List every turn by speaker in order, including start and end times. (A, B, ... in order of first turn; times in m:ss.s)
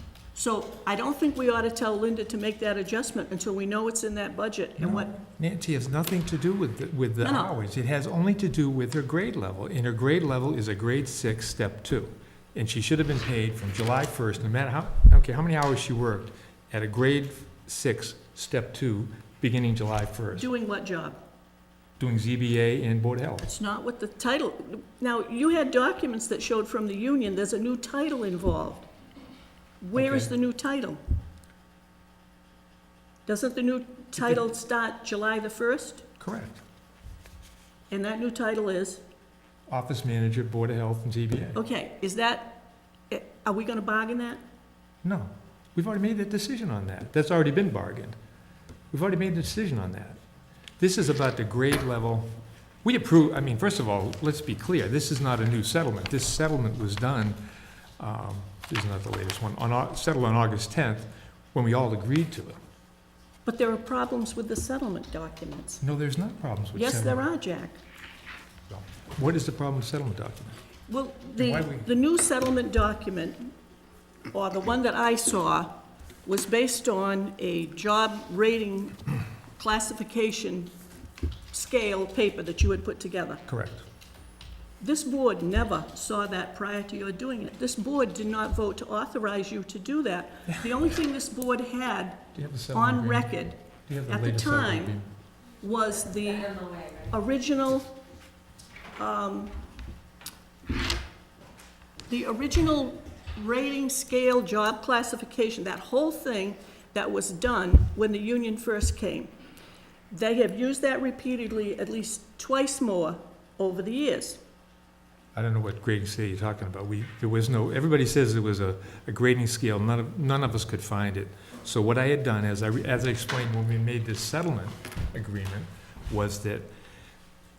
0:00.3-0:05.1 A
0:04.8-0:20.5 B
0:07.2-0:07.5 A
0:20.4-0:21.2 A
0:22.0-0:23.4 B
0:23.4-0:28.9 A
0:29.8-0:31.0 A
0:29.9-0:30.3 B
0:33.2-0:36.0 A
0:34.2-0:34.4 B
0:36.2-0:36.6 B
0:37.9-0:39.0 A
0:39.7-0:41.6 B
0:41.5-0:44.4 A
0:45.0-0:48.2 B
0:48.9-0:50.2 B
0:50.8-0:52.3 B
0:52.8-0:57.4 B
0:58.0-1:02.6 B
1:03.4-1:05.8 A
1:05.8-1:07.3 B
1:06.7-1:07.8 A
1:08.7-1:10.6 B
1:10.9-1:13.5 A
1:11.4-1:11.9 B
1:14.3-1:15.7 A
1:16.2-1:20.7 A
1:21.5-1:23.4 A
1:23.5-1:23.8 B
1:24.8-1:35.0 A
1:32.3-1:33.3 B
1:33.9-1:35.0 B
1:35.6-1:37.9 A
1:39.0-1:39.5 A
1:42.1-1:49.3 A
1:50.1-1:54.4 A
1:55.3-2:06.7 B